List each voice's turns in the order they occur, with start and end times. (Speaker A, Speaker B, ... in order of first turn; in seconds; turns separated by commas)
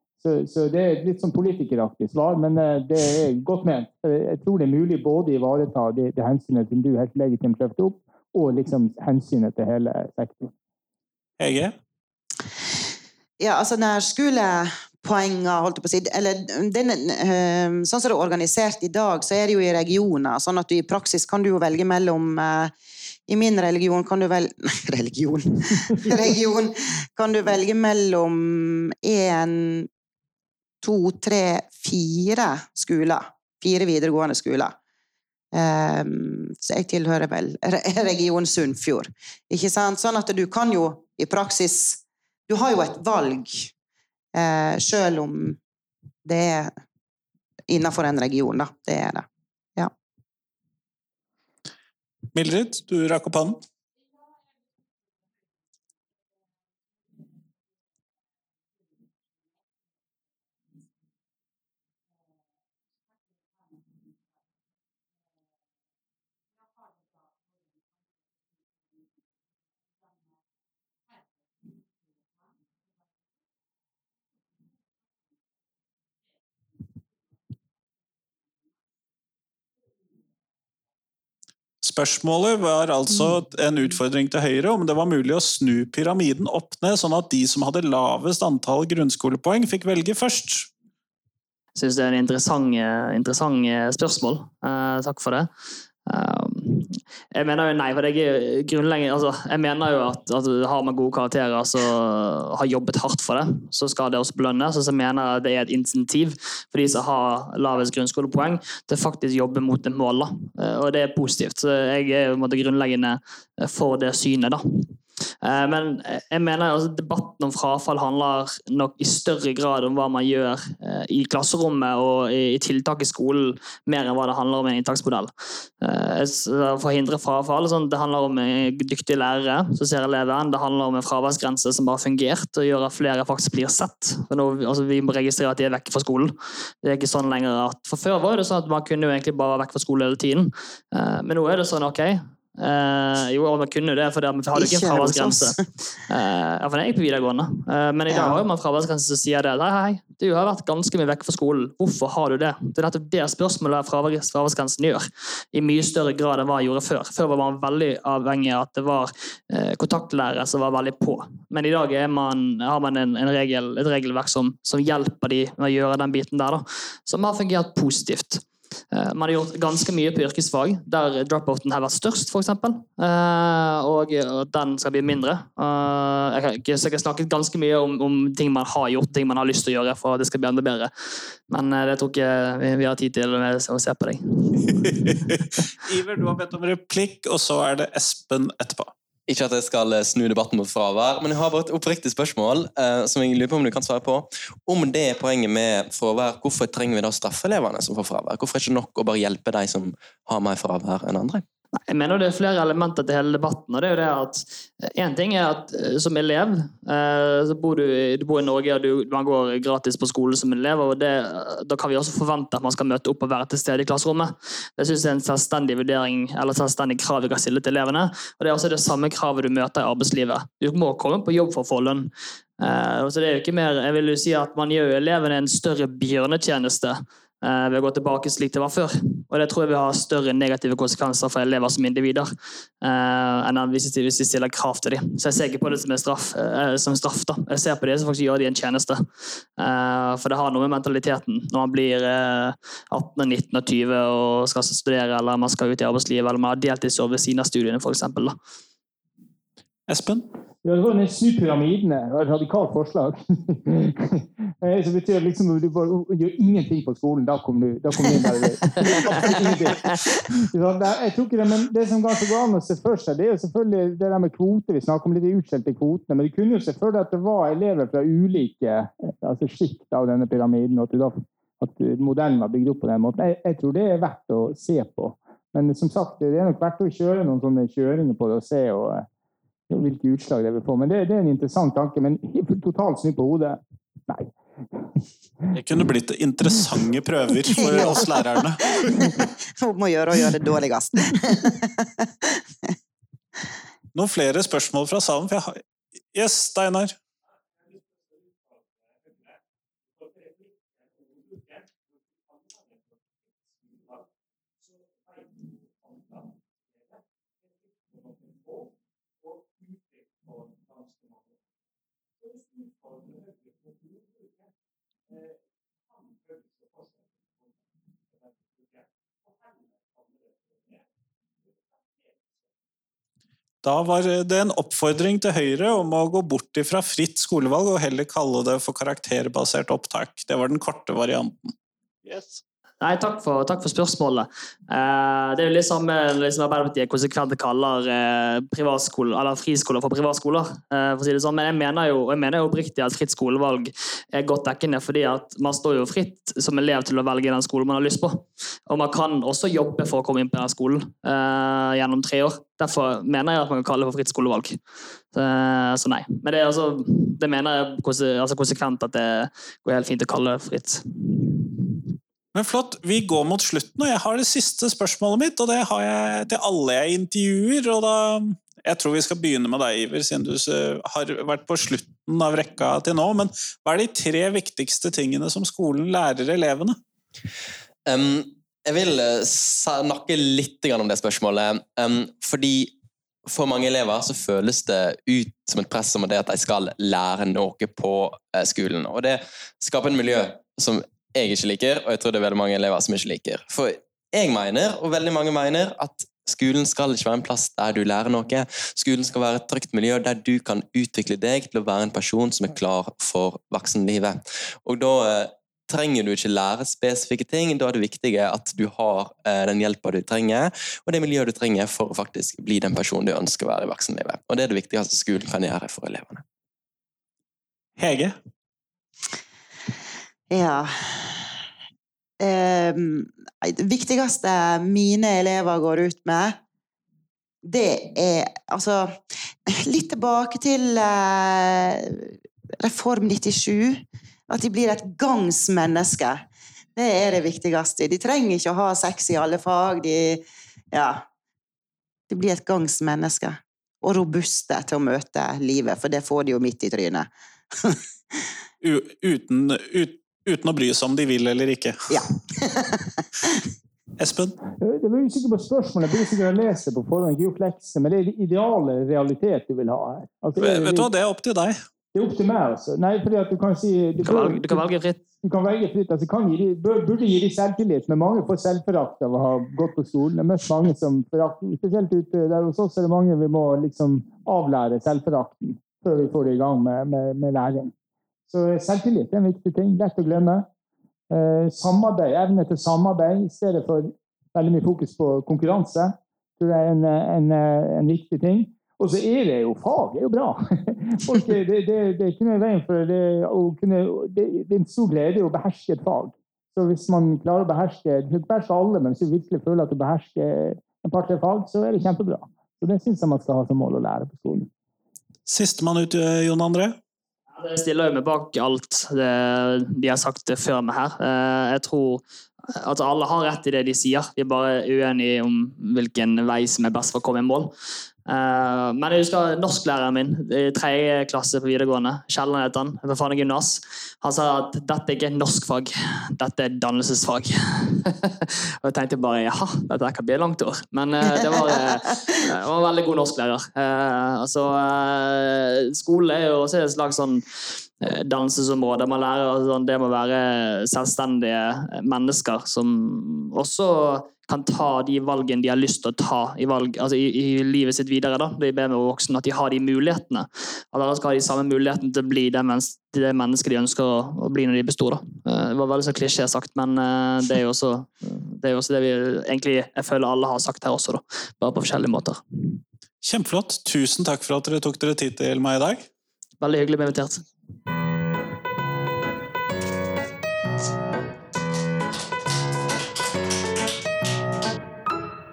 Speaker A: 0.2-10.5, Speaker B: 11.4-11.7, Speaker C: 13.4-22.7, Speaker C: 23.3-29.9, Speaker C: 30.8-34.7, Speaker C: 35.5-43.7, Speaker C: 44.3-45.6, Speaker C: 46.2-46.7, Speaker C: 47.7-49.9, Speaker B: 52.3-53.6, Speaker B: 81.8-90.7, Speaker D: 91.8-95.5, Speaker D: 96.0-180.9, Speaker C: 144.6-145.6, Speaker C: 148.1-148.4, Speaker D: 181.5-185.2, Speaker B: 184.8-188.9, Speaker E: 189.3-201.4, Speaker D: 201.9-232.3, Speaker D: 232.8-248.3, Speaker B: 249.9-250.2, Speaker A: 250.6-279.1, Speaker A: 279.7-285.0, Speaker B: 285.5-289.2, Speaker C: 287.5-288.0, Speaker C: 288.6-292.4, Speaker B: 293.9-295.6, Speaker B: 296.1-296.9, Speaker B: 323.6-331.5, Speaker B: 332.0-332.4, Speaker D: 332.8-354.6, Speaker D: 355.1-361.4, Speaker B: 362.3-376.8, Speaker E: 377.9-382.7, Speaker E: 383.2-416.2, Speaker B: 417.8-418.1, Speaker C: 420.3-421.2, Speaker C: 422.2-426.4, Speaker C: 427.4-428.9, Speaker C: 429.5-436.2, Speaker C: 436.8-441.0, Speaker C: 442.1-447.8, Speaker B: 448.6-452.0, Speaker C: 451.9-453.4, Speaker B: 454.0-454.4, Speaker A: 454.6-460.9, Speaker B: 460.4-461.6, Speaker A: 461.9-464.6, Speaker D: 464.0-465.0, Speaker A: 465.2-477.7, Speaker A: 478.3-480.5, Speaker A: 481.1-504.5, Speaker B: 505.3-506.8, Speaker D: 507.3-512.0, Speaker D: 512.5-517.5, Speaker D: 518.0-562.2, Speaker B: 563.0-565.9, Speaker D: 566.4-567.2